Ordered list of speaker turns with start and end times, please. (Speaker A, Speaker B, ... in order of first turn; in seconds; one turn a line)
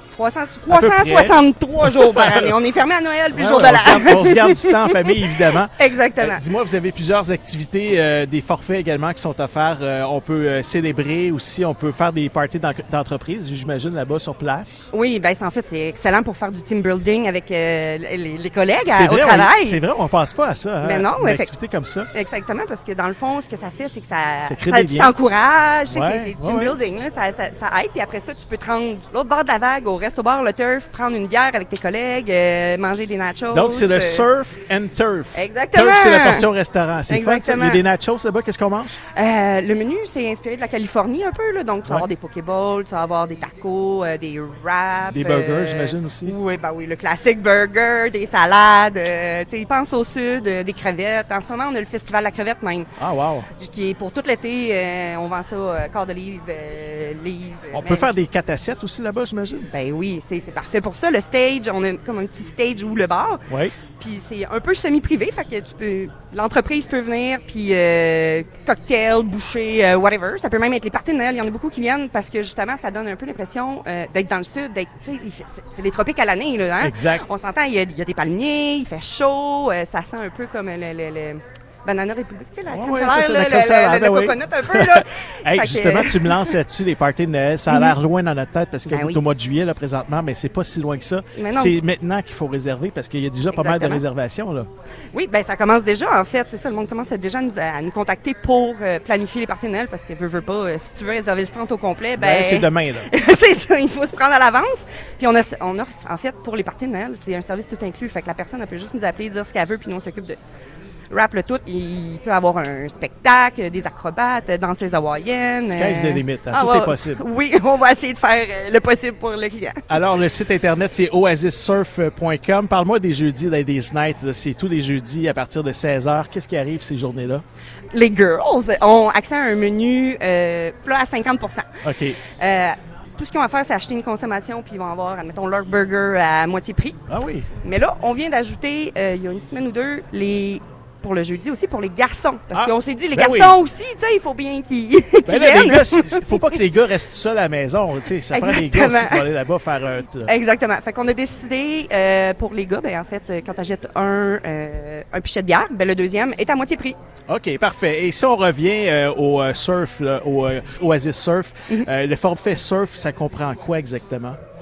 Speaker A: 0.1-5.1
Speaker B: 0.7-2.6
Speaker B: 3.3-14.9
Speaker A: 5.8-6.4
Speaker A: 14.9-19.8
Speaker B: 18.9-22.1
Speaker A: 20.8-21.5
Speaker A: 22.1-34.3
Speaker B: 24.4-25.1
Speaker B: 25.9-26.8
Speaker B: 33.5-39.0
Speaker A: 35.3-36.5
Speaker A: 37.1-37.8
Speaker A: 39.1-52.9
Speaker B: 45.1-46.4
Speaker B: 53.0-53.5
Speaker A: 53.6-58.1
Speaker B: 57.7-59.7
Speaker A: 59.7-86.6
Speaker B: 63.5-63.8
Speaker B: 76.8-77.2
Speaker B: 82.7-94.7
Speaker A: 87.7-88.0
Speaker A: 88.9-89.2
Speaker A: 91.3-91.8
Speaker A: 93.5-94.0
Speaker A: 95.1-110.4
Speaker B: 102.2-103.1
Speaker A: 111.1-119.9
Speaker B: 115.7-117.2
Speaker B: 119.9-127.4
Speaker A: 127.9-131.7
Speaker B: 131.8-132.2
Speaker A: 132.4-137.0
Speaker B: 137.1-137.5
Speaker A: 137.6-146.5
Speaker B: 142.5-143.6
Speaker B: 145.3-150.3
Speaker A: 148.3-149.3
Speaker A: 150.2-157.0
Speaker B: 157.3-164.4